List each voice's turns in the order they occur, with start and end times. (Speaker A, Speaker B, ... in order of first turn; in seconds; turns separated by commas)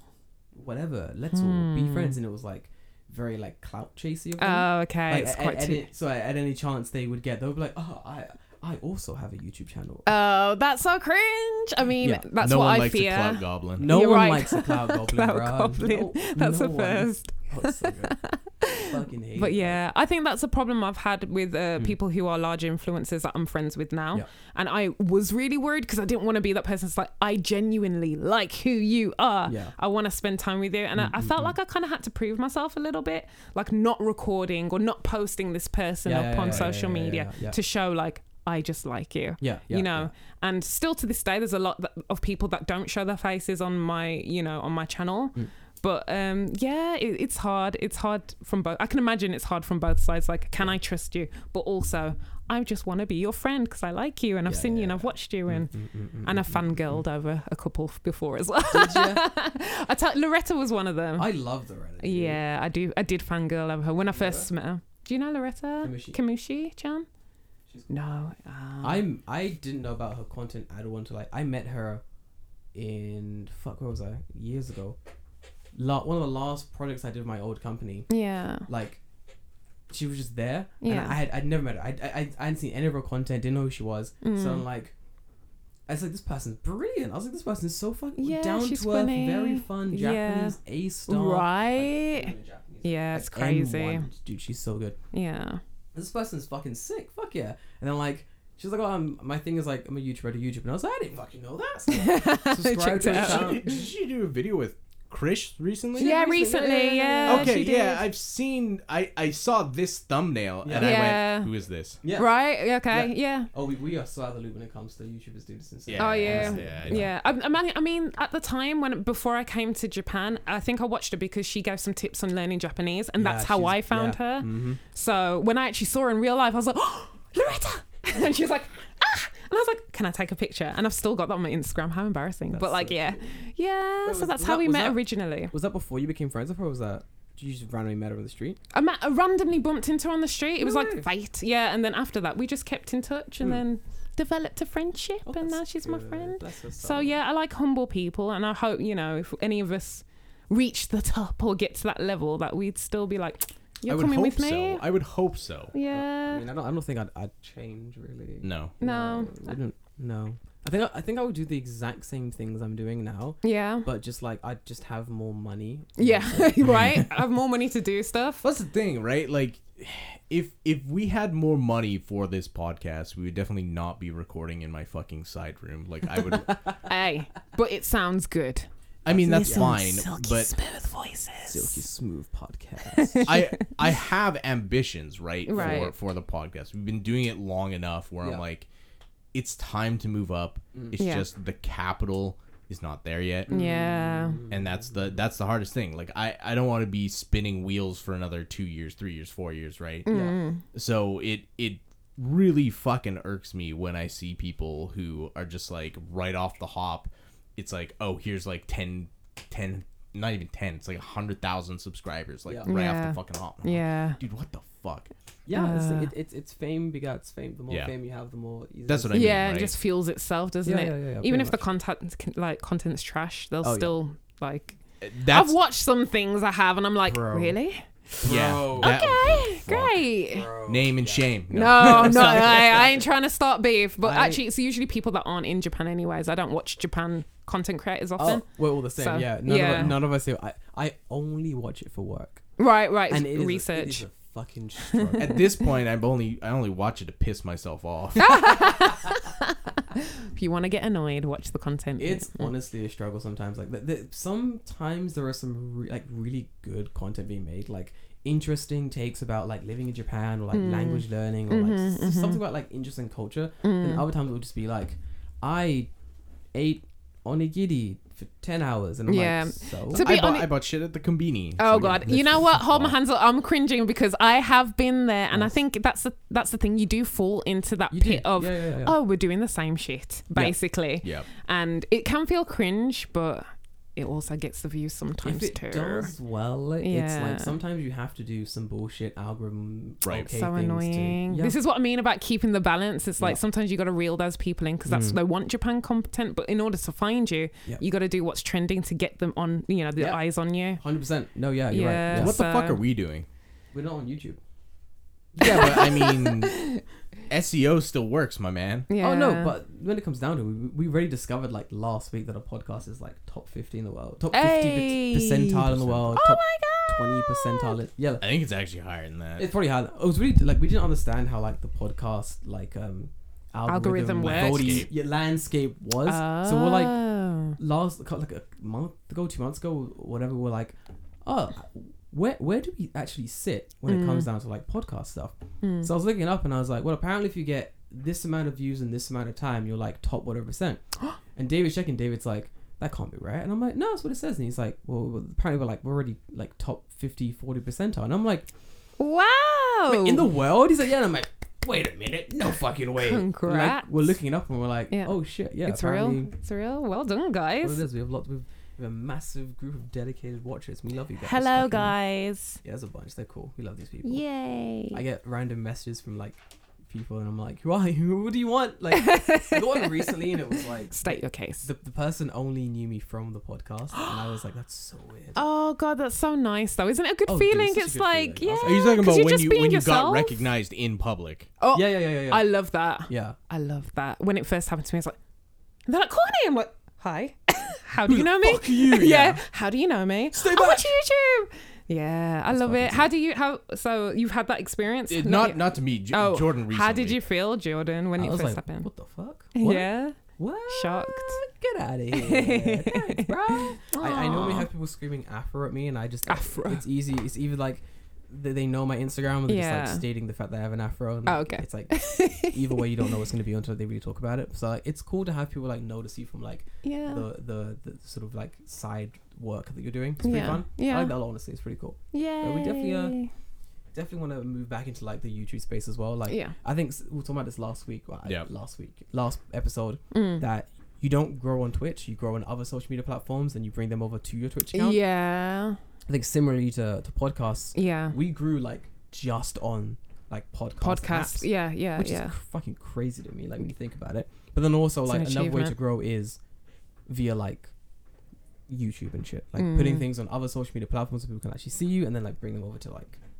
Speaker A: 0.5-10.1, Speaker B: 1.3-2.2, Speaker B: 4.4-5.8, Speaker B: 10.1-61.3, Speaker A: 12.0-12.3, Speaker C: 12.4-13.9, Speaker A: 13.8-18.2, Speaker A: 18.8-19.8, Speaker A: 29.4-29.7, Speaker A: 30.9-31.5, Speaker A: 36.0-37.6, Speaker A: 39.4-40.1, Speaker A: 54.5-57.0, Speaker A: 58.7-59.2, Speaker A: 61.2-62.4, Speaker B: 62.0-67.1, Speaker A: 64.1-64.5, Speaker A: 65.8-66.2, Speaker B: 67.9-69.0, Speaker A: 68.8-72.0, Speaker A: 72.7-75.0, Speaker A: 75.7-78.1, Speaker B: 78.1-78.7, Speaker A: 78.6-79.0, Speaker A: 79.9-84.9, Speaker B: 80.8-81.2, Speaker B: 84.2-84.7, Speaker A: 85.9-95.0, Speaker B: 88.2-94.1, Speaker B: 95.1-95.6, Speaker A: 95.9-103.8, Speaker B: 101.9-103.6, Speaker C: 102.9-106.1, Speaker A: 106.0-107.7, Speaker B: 106.0-108.0, Speaker C: 107.2-112.0, Speaker A: 110.6-111.0, Speaker B: 110.8-111.5, Speaker A: 112.0-117.1, Speaker B: 112.1-113.5, Speaker C: 115.9-117.1, Speaker B: 116.0-135.5, Speaker A: 123.2-124.8, Speaker A: 132.5-133.3, Speaker A: 134.0-138.6, Speaker B: 138.7-154.8, Speaker A: 140.6-141.1, Speaker A: 145.2-147.2, Speaker C: 153.8-155.7, Speaker B: 155.7-156.4, Speaker A: 155.9-167.1, Speaker C: 158.4-158.7, Speaker B: 158.8-159.5, Speaker B: 163.4-163.9, Speaker B: 166.0-168.4, Speaker C: 168.4-176.7, Speaker A: 176.2-176.6, Speaker B: 176.8-181.8, Speaker C: 179.0-180.6, Speaker A: 179.1-179.8, Speaker A: 181.5-183.3, Speaker B: 182.9-183.8, Speaker C: 183.2-188.7, Speaker B: 185.4-185.9, Speaker A: 185.5-185.9, Speaker C: 189.3-193.5, Speaker B: 191.0-191.3, Speaker A: 193.5-195.0, Speaker B: 193.5-194.4, Speaker C: 194.5-200.1, Speaker B: 200.1-200.6, Speaker A: 200.1-200.4, Speaker C: 200.7-215.1, Speaker A: 212.4-212.7, Speaker B: 212.7-214.2, Speaker A: 215.4-219.4, Speaker B: 215.5-216.1, Speaker C: 218.8-219.7, Speaker B: 219.1-227.9, Speaker A: 220.6-221.6, Speaker A: 223.6-223.9, Speaker C: 225.0-225.6, Speaker A: 227.1-227.6, Speaker A: 228.2-229.1, Speaker C: 228.2-230.1, Speaker B: 228.8-230.5, Speaker A: 230.3-233.1, Speaker C: 230.6-232.6, Speaker B: 231.5-240.0, Speaker A: 234.0-234.4, Speaker A: 238.2-242.4, Speaker B: 242.6-244.1, Speaker A: 243.1-245.4, Speaker B: 244.8-245.4, Speaker C: 245.2-248.7, Speaker B: 248.2-252.5, Speaker A: 248.3-248.6, Speaker A: 252.0-265.9, Speaker B: 260.5-262.4, Speaker B: 263.6-264.1, Speaker A: 266.5-270.1, Speaker B: 269.1-270.5, Speaker C: 269.9-272.9, Speaker B: 271.6-286.1, Speaker A: 272.0-272.5, Speaker A: 277.9-279.0, Speaker C: 281.0-281.3, Speaker A: 285.2-291.6, Speaker B: 286.8-287.5, Speaker C: 290.0-290.3, Speaker B: 290.3-300.8, Speaker A: 294.9-295.2, Speaker A: 300.8-302.3, Speaker B: 301.7-302.8, Speaker C: 302.1-303.3, Speaker A: 303.7-304.4, Speaker C: 305.4-306.8, Speaker A: 305.4-305.8, Speaker B: 305.4-306.8, Speaker C: 307.3-308.9, Speaker B: 308.9-309.5, Speaker A: 308.9-318.3, Speaker B: 314.3-317.8, Speaker C: 315.7-316.0, Speaker C: 318.2-319.5, Speaker A: 319.4-340.8, Speaker B: 323.7-324.9, Speaker C: 324.1-324.9, Speaker B: 326.1-327.6, Speaker B: 333.8-334.3, Speaker B: 335.6-335.9, Speaker A: 341.3-348.5, Speaker B: 349.0-350.3, Speaker A: 349.9-356.3, Speaker B: 353.0-354.1, Speaker B: 354.9-357.8, Speaker A: 357.6-361.9, Speaker B: 361.2-362.6, Speaker A: 362.6-364.2, Speaker B: 364.0-365.0, Speaker A: 364.9-375.4, Speaker B: 368.9-371.7, Speaker B: 375.3-380.4, Speaker A: 377.2-379.0, Speaker C: 378.6-381.5, Speaker B: 381.6-385.1, Speaker A: 381.7-382.5, Speaker A: 383.1-383.4, Speaker B: 385.9-398.9, Speaker A: 388.0-389.4, Speaker A: 390.3-390.9, Speaker A: 392.5-393.1, Speaker C: 395.1-397.2, Speaker A: 398.1-423.1, Speaker B: 399.5-400.2, Speaker B: 400.7-401.4, Speaker B: 402.1-404.7, Speaker B: 406.2-406.8, Speaker B: 409.5-410.0, Speaker B: 411.2-412.9, Speaker B: 416.8-417.2, Speaker B: 420.2-421.1, Speaker B: 422.1-423.3, Speaker A: 423.9-435.0, Speaker B: 426.3-426.5, Speaker B: 430.1-430.4, Speaker B: 434.7-435.8, Speaker A: 436.1-446.4, Speaker B: 437.7-438.1, Speaker B: 440.8-442.3, Speaker B: 445.1-445.8, Speaker A: 447.1-447.7, Speaker A: 448.7-453.2, Speaker B: 449.5-450.1